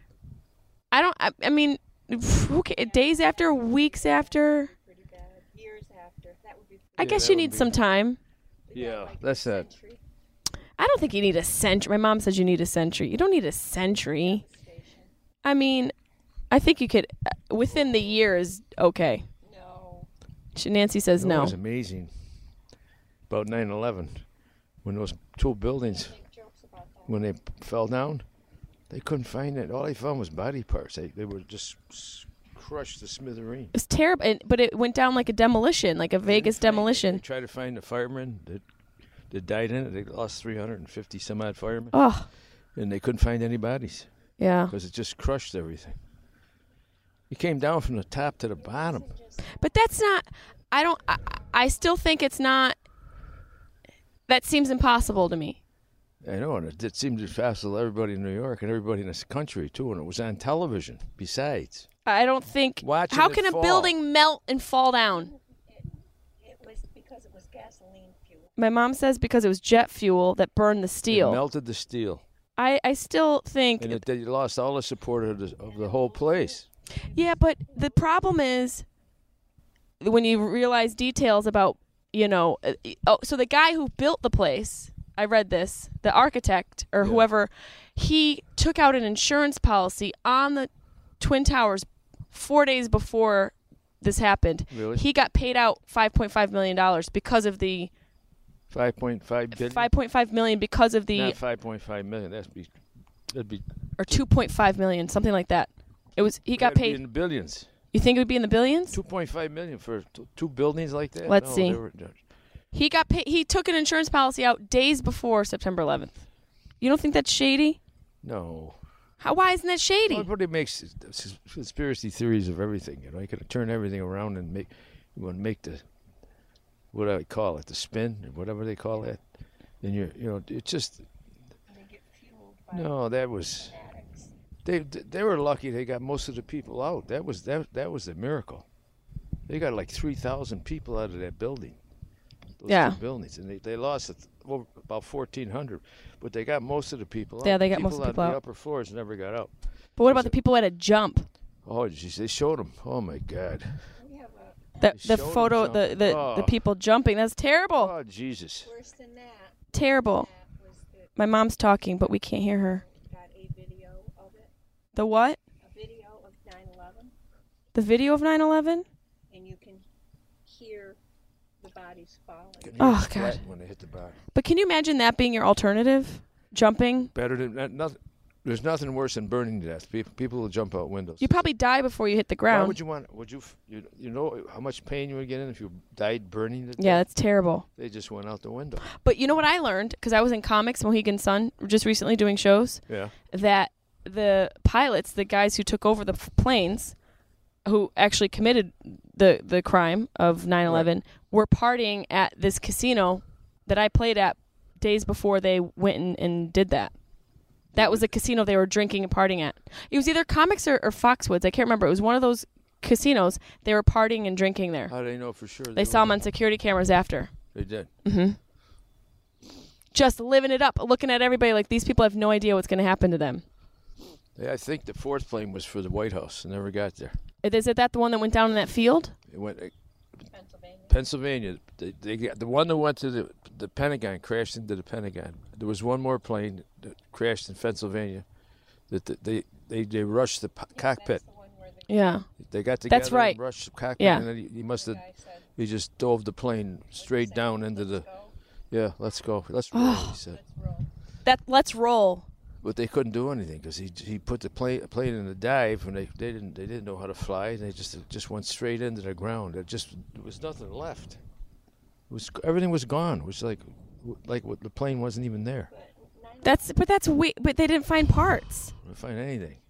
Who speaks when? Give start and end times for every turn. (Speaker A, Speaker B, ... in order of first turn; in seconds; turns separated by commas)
Speaker A: 0.9-4.7, Speaker B: 2.8-7.3, Speaker C: 7.0-7.8, Speaker A: 7.0-8.2, Speaker B: 8.7-10.0, Speaker C: 8.7-9.7, Speaker A: 10.8-14.4, Speaker B: 13.8-15.1, Speaker A: 15.4-15.9, Speaker A: 16.5-19.3, Speaker B: 19.4-20.1, Speaker A: 20.5-21.6, Speaker C: 21.1-22.1, Speaker C: 23.3-24.2, Speaker C: 24.8-26.1, Speaker B: 25.8-27.3, Speaker C: 27.1-28.2, Speaker C: 28.9-33.7, Speaker A: 33.7-37.2, Speaker C: 36.2-38.6, Speaker C: 39.3-42.0, Speaker A: 41.9-42.3, Speaker C: 42.7-44.1, Speaker A: 44.4-44.7, Speaker C: 44.7-46.0, Speaker C: 47.3-49.1, Speaker B: 48.5-50.2, Speaker A: 49.6-52.8, Speaker A: 54.3-55.6, Speaker C: 56.2-61.9, Speaker A: 62.0-65.3, Speaker C: 62.8-63.9, Speaker B: 65.1-68.5, Speaker A: 68.6-71.4, Speaker C: 71.1-72.2, Speaker A: 72.6-74.0, Speaker C: 73.8-76.7, Speaker B: 75.6-78.3, Speaker A: 77.1-78.8, Speaker A: 80.0-97.9, Speaker C: 87.0-87.2, Speaker C: 94.7-95.0, Speaker C: 98.7-99.9, Speaker A: 99.5-101.4, Speaker C: 101.1-102.7, Speaker C: 103.3-104.2, Speaker A: 104.0-107.0, Speaker C: 106.5-107.7, Speaker A: 107.9-109.0, Speaker C: 108.9-112.2, Speaker A: 111.2-111.8, Speaker A: 112.7-116.2, Speaker A: 116.8-117.8, Speaker C: 118.2-118.8, Speaker A: 119.2-120.3, Speaker C: 120.1-125.8, Speaker C: 126.9-129.2, Speaker C: 129.8-131.0, Speaker B: 131.7-134.3, Speaker C: 132.7-133.7, Speaker C: 134.6-138.7, Speaker C: 139.5-141.8, Speaker C: 142.6-149.5, Speaker A: 142.7-143.0, Speaker A: 147.4-148.4, Speaker A: 150.0-151.3, Speaker C: 150.0-150.3, Speaker C: 151.6-153.9, Speaker B: 153.9-154.8, Speaker A: 154.8-157.9, Speaker C: 154.9-156.6, Speaker C: 157.7-158.7, Speaker B: 158.6-161.1, Speaker A: 159.7-160.3, Speaker A: 161.2-162.8, Speaker B: 162.6-164.5, Speaker A: 164.9-165.4, Speaker B: 165.6-167.1, Speaker A: 167.7-168.8, Speaker B: 169.3-169.8, Speaker B: 170.4-171.0, Speaker B: 171.6-172.8, Speaker C: 172.6-174.2, Speaker A: 172.8-173.4, Speaker A: 174.3-177.1, Speaker C: 177.1-181.4, Speaker A: 181.2-182.8, Speaker C: 182.5-187.1, Speaker A: 186.8-187.6, Speaker C: 187.8-188.8, Speaker A: 189.0-196.9, Speaker C: 192.9-193.1, Speaker A: 197.6-206.9, Speaker C: 200.6-200.9, Speaker C: 207.7-208.1, Speaker A: 207.7-214.9, Speaker C: 214.9-216.2, Speaker A: 215.7-217.3, Speaker C: 217.5-217.9, Speaker A: 218.0-218.4, Speaker A: 219.9-223.4, Speaker C: 224.3-227.2, Speaker A: 227.4-229.1, Speaker C: 229.3-229.7, Speaker B: 230.3-231.1, Speaker C: 230.9-238.2, Speaker C: 238.9-241.2, Speaker B: 240.7-242.2, Speaker A: 241.9-242.2, Speaker C: 242.4-245.0, Speaker A: 242.9-243.4, Speaker A: 244.0-244.2, Speaker B: 244.5-245.5, Speaker C: 245.6-248.1, Speaker B: 246.9-248.3, Speaker C: 248.7-250.4, Speaker A: 249.7-250.1, Speaker B: 250.2-250.9, Speaker A: 251.2-252.3, Speaker C: 252.6-261.2, Speaker C: 262.1-265.7, Speaker B: 265.7-266.8, Speaker A: 266.4-268.7, Speaker C: 268.8-269.6